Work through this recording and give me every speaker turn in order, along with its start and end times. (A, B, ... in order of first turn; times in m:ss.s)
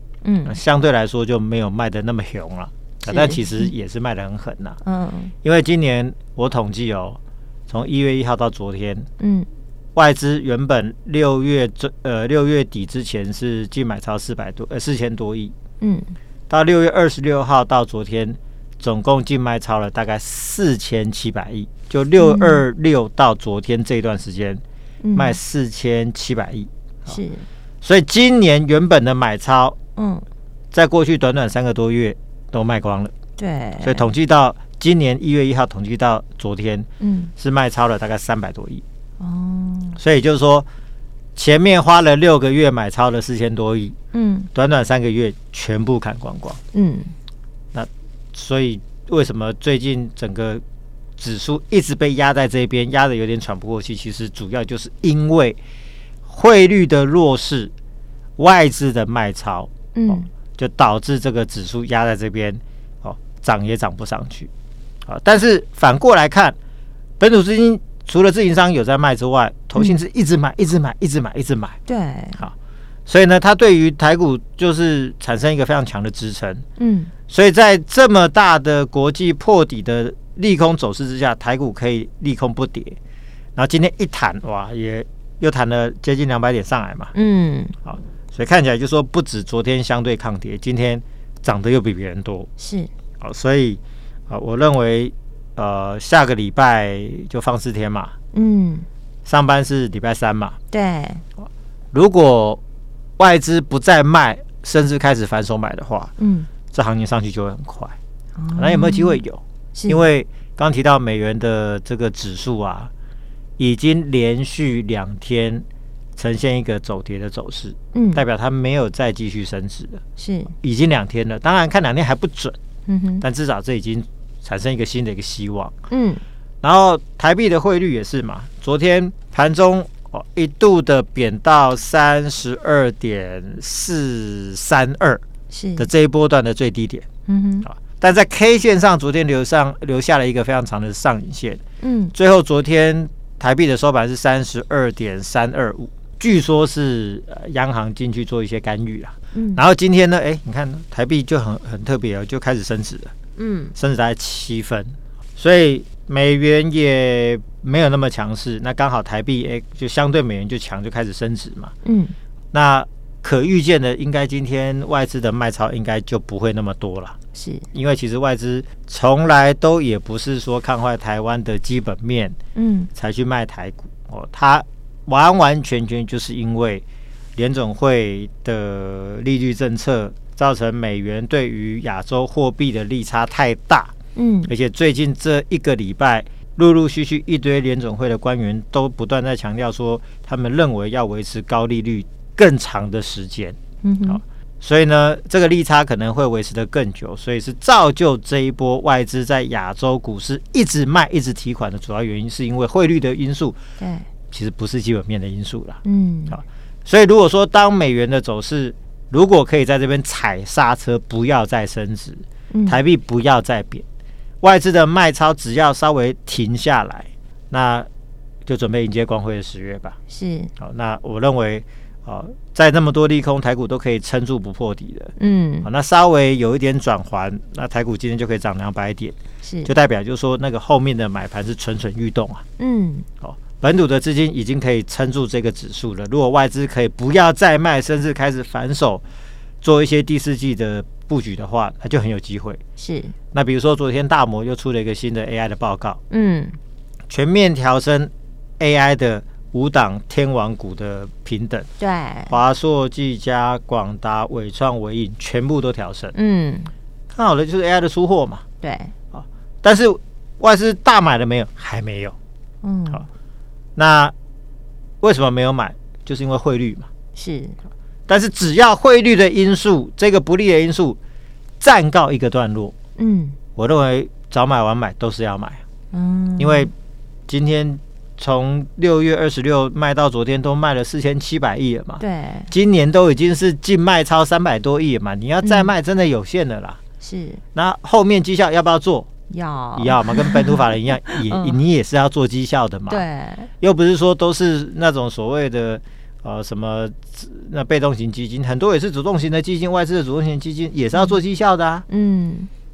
0:00.2-0:00.6 A
0:00.5-0:04.8 B
0:03.1-0:03.7 A
0:04.8-0:05.3 A
0:05.4-0:09.1 B
0:09.2-0:09.5 A
0:10.0-0:15.5 B
0:15.8-0:16.2 A
0:16.5-0:24.6 B
0:22.2-0:22.6 A
0:25.0-0:25.4 A
0:25.1-0:27.2 B
0:27.1-0:27.4 A
0:27.8-0:29.8 B
0:30.0-0:30.2 A
0:30.7-0:33.1 B
0:33.4-0:34.1 A
0:33.8-0:38.8 B
0:37.0-0:37.3 A
0:39.2-0:40.0 A
0:40.0-0:40.7 B
0:41.4-0:44.0 B
0:44.1-0:44.5 A
0:44.5-0:46.6 B
0:46.7-0:47.1 A
0:47.7-0:50.6 B
0:51.2-0:55.6 B
0:56.3-0:57.7 B
0:58.4-1:04.5 B
1:00.0-1:00.3 A
1:05.1-1:06.6 B
1:07.2-1:11.8 B
1:11.9-1:12.4 A
1:13.1-1:16.6 B
1:16.8-1:17.1 A
1:17.3-1:23.0 B
1:23.6-1:27.1 B
1:27.1-1:27.8 A
1:27.8-1:32.5 B
1:32.6-1:32.9 A
1:33.2-1:38.2 B
1:38.3-1:38.9 A
1:39.3-1:40.6 B
1:40.7-1:41.2 A
1:41.9-1:42.6 B
1:43.2-1:46.1 B
1:46.2-1:46.5 A
1:46.7-1:47.9 B
1:48.4-1:49.2 A
1:48.6-1:52.9 B
1:49.8-1:50.0 A
1:53.6-2:00.0 B
1:57.9-1:58.2 A
2:00.2-2:00.5 A
2:00.6-2:02.6 B
2:02.9-2:03.2 A
2:03.2-2:05.8 B
2:05.9-2:06.2 A
2:06.6-2:15.2 B
2:15.5-2:15.9 A
2:15.8-2:17.1 B
2:17.3-2:17.7 A
2:17.6-2:21.6 B
2:21.8-2:22.1 A
2:22.1-2:33.1 B
2:29.3-2:29.6 A
2:33.4-2:33.7 A
2:33.8-2:41.7 B
2:41.8-2:42.2 A
2:42.5-2:47.2 B
2:47.4-2:47.7 A
2:47.7-2:52.4 B
2:52.6-2:52.9 A
2:53.0-2:56.8 B
2:57.4-3:03.9 B
3:04.2-3:04.5 A
3:04.5-3:13.6 B
3:13.8-3:14.2 A
3:14.1-3:23.6 B
3:23.8-3:24.0 A
3:24.3-3:25.8 B
3:25.8-3:26.4 A
3:26.3-3:33.8 B
3:32.5-3:32.8 A
3:34.4-3:37.9 B
3:38.5-3:40.0 B
3:40.1-3:40.5 A
3:40.6-3:52.4 B
3:45.2-3:45.7 A
3:49.4-3:49.7 A
3:52.6-3:53.1 A
3:53.2-3:59.0 B
3:59.6-4:02.6 B
4:02.8-4:03.2 A
4:03.3-4:06.0 B
4:06.1-4:06.6 A
4:07.1-4:11.7 B
4:11.8-4:12.4 A
4:12.3-4:16.2 B
4:16.1-4:16.7 A
4:17.1-4:18.4 B
4:18.6-4:18.9 A
4:19.1-4:22.2 B
4:22.6-4:23.1 A
4:23.8-4:24.1 B
4:25.0-4:26.9 B
4:27.2-4:27.6 A
4:28.1-4:31.0 B
4:31.6-4:32.8 B
4:33.0-4:33.4 A
4:33.6-4:35.6 B
4:35.9-4:36.7 A
4:36.4-4:36.7 B
4:37.3-4:46.8 B
4:42.0-4:42.5 A
4:45.4-4:45.7 A
4:47.0-4:47.4 A
4:47.5-4:49.1 B
4:49.3-4:51.6 A
4:49.8-4:53.0 B
4:52.9-4:53.5 A
4:53.6-5:01.9 B
5:01.9-5:02.5 A